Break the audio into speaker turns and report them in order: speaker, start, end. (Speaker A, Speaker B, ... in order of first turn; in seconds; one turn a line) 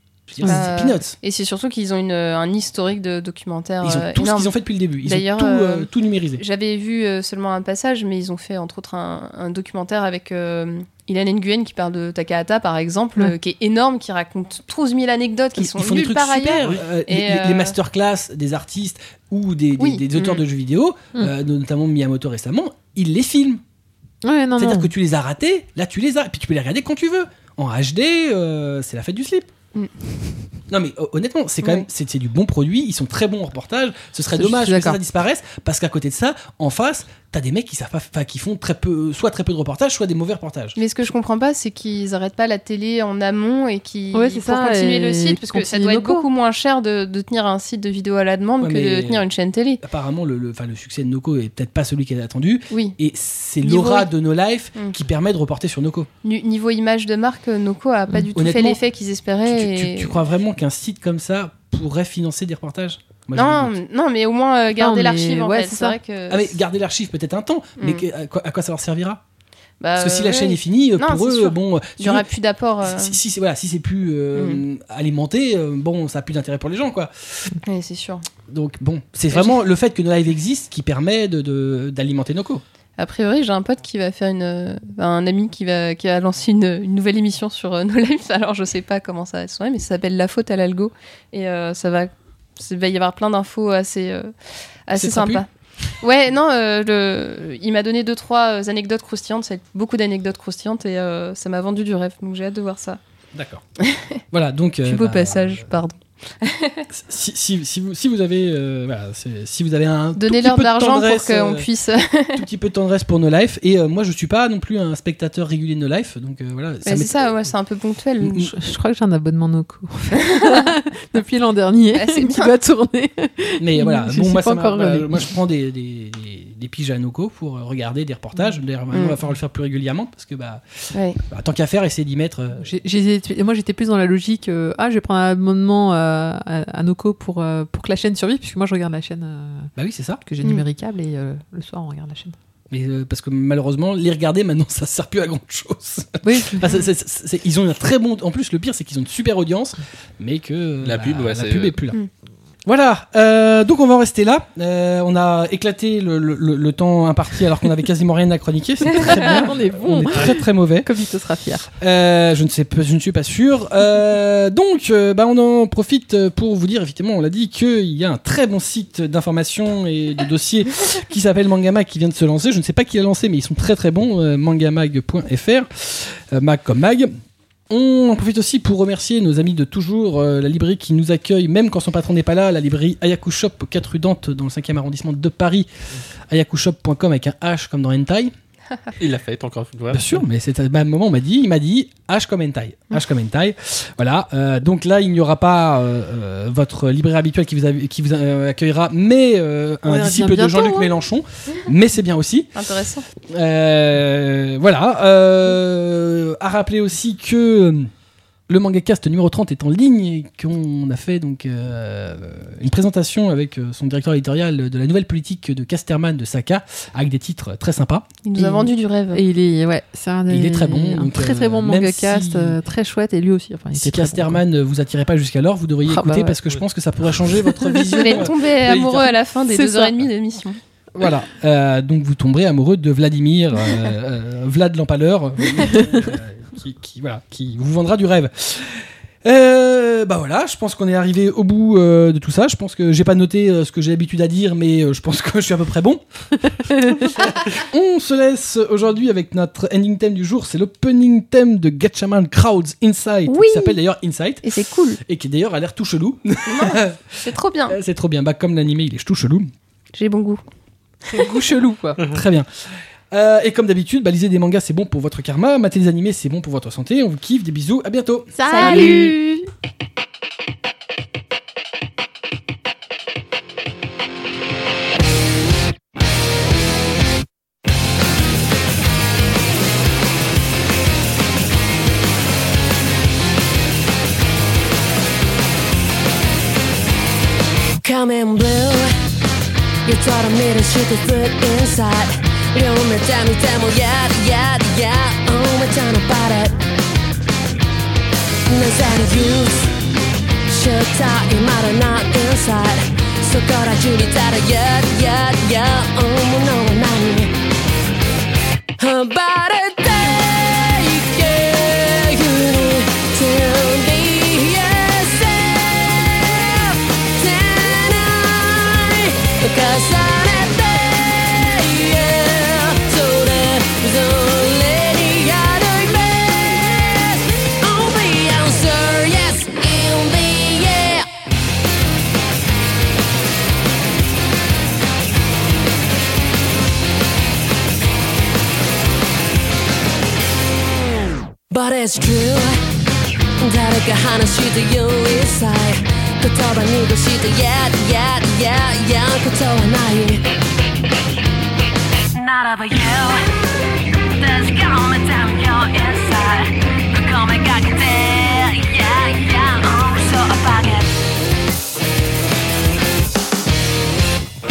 Speaker A: 0.3-1.1
Speaker B: 0.4-4.5
Speaker A: 3.8-6.4
Speaker B: 5.0-17.8
Speaker A: 15.6-23.6
Speaker B: 19.8-20.4
Speaker C: 24.2-24.9
Speaker A: 24.6-29.5
Speaker A: 30.7-40.8
Speaker C: 34.4-35.0
Speaker B: 40.8-49.8
Speaker C: 44.1-46.3
Speaker A: 48.6-49.3
Speaker A: 49.8-56.1
Speaker B: 52.7-53.0
Speaker B: 53.6-54.1
Speaker B: 56.2-60.2
Speaker A: 58.3-58.8
Speaker A: 59.5-63.7
Speaker B: 63.4-66.6
Speaker C: 64.8-66.0
Speaker A: 66.3-69.2
Speaker B: 67.8-68.1
Speaker B: 69.8-73.2
Speaker A: 70.0-72.3
Speaker A: 72.9-77.5
Speaker B: 74.3-74.6
Speaker B: 77.6-78.2
Speaker A: 78.5-82.6
Speaker B: 79.3-79.6
Speaker B: 83.0-94.3
Speaker B: 94.9-95.5
Speaker A: 95.0-95.4
Speaker B: 96.0-103.0
Speaker A: 103.3-103.6
Speaker B: 103.8-104.2
Speaker A: 104.3-105.6
Speaker B: 104.8-106.9
Speaker A: 106.9-111.7
Speaker B: 110.2-112.4
Speaker A: 112.3-117.3
Speaker B: 116.8-118.5
Speaker A: 118.2-118.5
Speaker C: 118.4-125.3
Speaker B: 120.3-120.7
Speaker B: 121.9-122.5
Speaker A: 123.6-132.7
Speaker B: 128.9-129.2
Speaker B: 130.9-131.2
Speaker C: 132.6-139.7
Speaker A: 139.8-140.2
Speaker C: 140.2-142.4
Speaker A: 142.7-152.0
Speaker C: 146.2-146.8
Speaker D: 150.8-151.8
Speaker A: 152.7-160.9
Speaker C: 158.9-161.7
Speaker A: 161.8-177.1
Speaker A: 177.7-185.7
Speaker A: 186.3-188.3
Speaker D: 189.0-190.2
Speaker A: 189.9-202.5
Speaker C: 199.8-201.0
Speaker B: 202.6-203.1
Speaker A: 203.3-207.9
Speaker A: 208.5-218.1
Speaker B: 218.2-219.2
Speaker C: 218.4-224.4
Speaker A: 220.3-222.6
Speaker A: 223.8-229.2
Speaker C: 225.8-226.4
Speaker C: 227.5-228.3
Speaker B: 227.9-230.6
Speaker C: 229.5-230.1
Speaker A: 231.0-259.5
Speaker C: 235.7-236.0
Speaker C: 246.7-247.1
Speaker C: 253.3-253.7
Speaker B: 253.3-253.8
Speaker B: 254.4-255.0
Speaker B: 256.5-257.8
Speaker B: 259.9-260.4
Speaker C: 261.1-262.0
Speaker A: 262.0-262.5
Speaker A: 263.1-269.0
Speaker C: 268.4-269.4
Speaker B: 268.4-269.2
Speaker E: 287.8-288.9
Speaker E: 289.9-296.6
Speaker E: 298.5-299.7
Speaker E: 300.5-307.3
Speaker E: 308.8-331.1
Speaker E: 341.5-342.6
Speaker E: 343.4-350.2
Speaker E: 352.1-353.2
Speaker E: 354.1-360.9